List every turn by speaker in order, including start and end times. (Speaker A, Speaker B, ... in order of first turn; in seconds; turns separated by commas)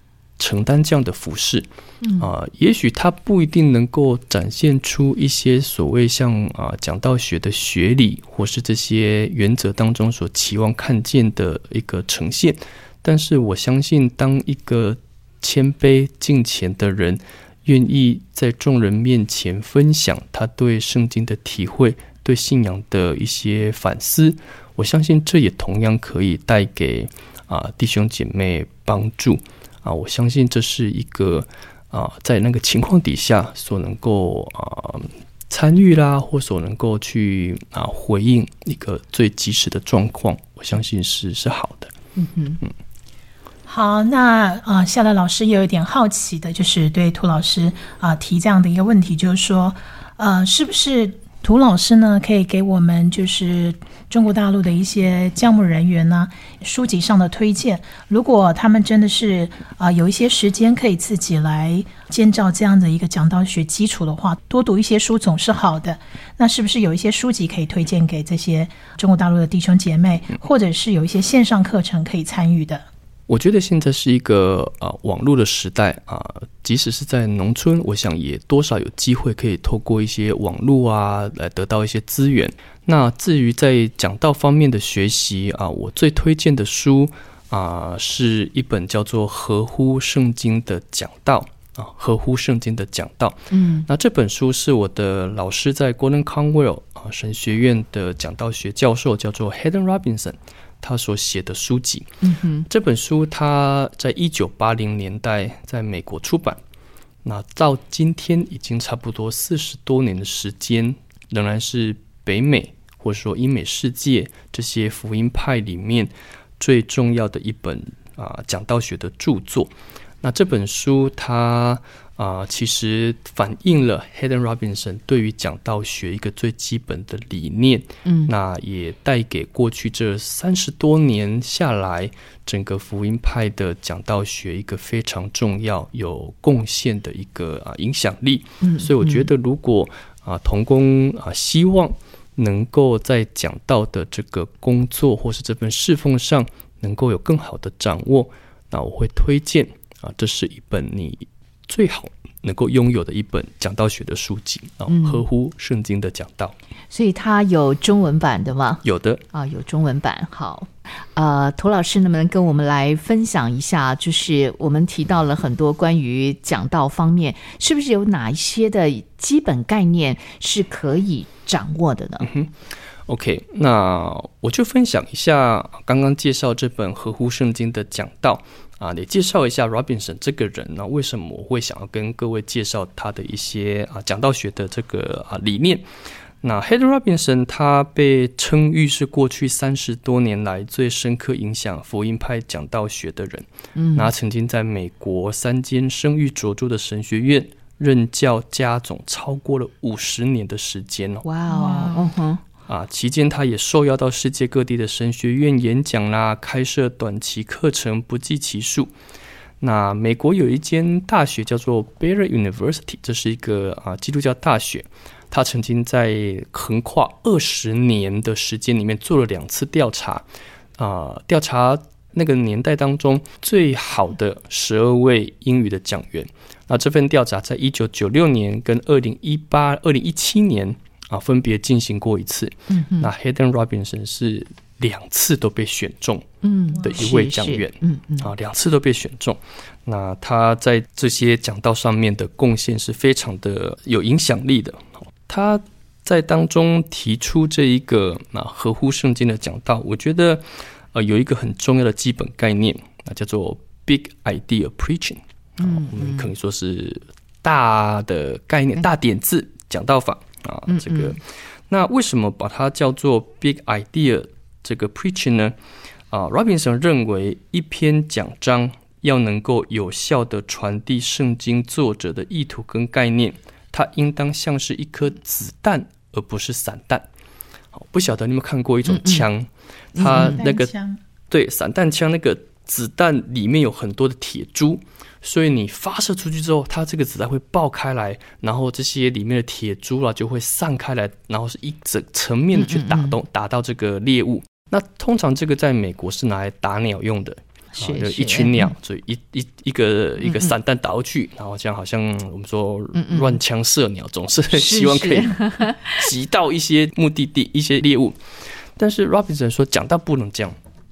Speaker A: 0.4-41.9, Speaker B: 2.0-2.3, Speaker B: 42.1-42.6, Speaker C: 43.7-72.8, Speaker A: 73.3-102.1, Speaker B: 93.5-93.8, Speaker B: 102.2-102.7, Speaker A: 102.7-106.6, Speaker A: 107.2-156.5, Speaker B: 128.0-128.3, Speaker B: 138.6-139.3, Speaker B: 154.9-155.2, Speaker B: 156.9-172.3, Speaker A: 158.8-159.2, Speaker A: 172.2-172.5, Speaker A: 173.1-185.8, Speaker A: 186.4-201.2, Speaker B: 193.7-194.1, Speaker B: 201.2-202.4, Speaker C: 201.5-201.9, Speaker A: 202.7-208.9, Speaker A: 209.6-220.2, Speaker A: 220.8-236.2, Speaker B: 232.7-233.1, Speaker B: 236.4-238.3, Speaker A: 236.8-261.2, Speaker B: 255.6-256.3, Speaker B: 260.7-261.2, Speaker A: 261.7-265.5, Speaker A: 266.1-277.1, Speaker A: 277.7-280.7, Speaker B: 278.9-279.2, Speaker B: 279.9-280.4, Speaker C: 280.1-281.0, Speaker A: 281.3-308.2, Speaker B: 292.5-293.2, Speaker B: 297.8-298.7, Speaker B: 300.2-300.5, Speaker B: 302.9-303.4, Speaker B: 304.5-305.9, Speaker A: 308.8-310.6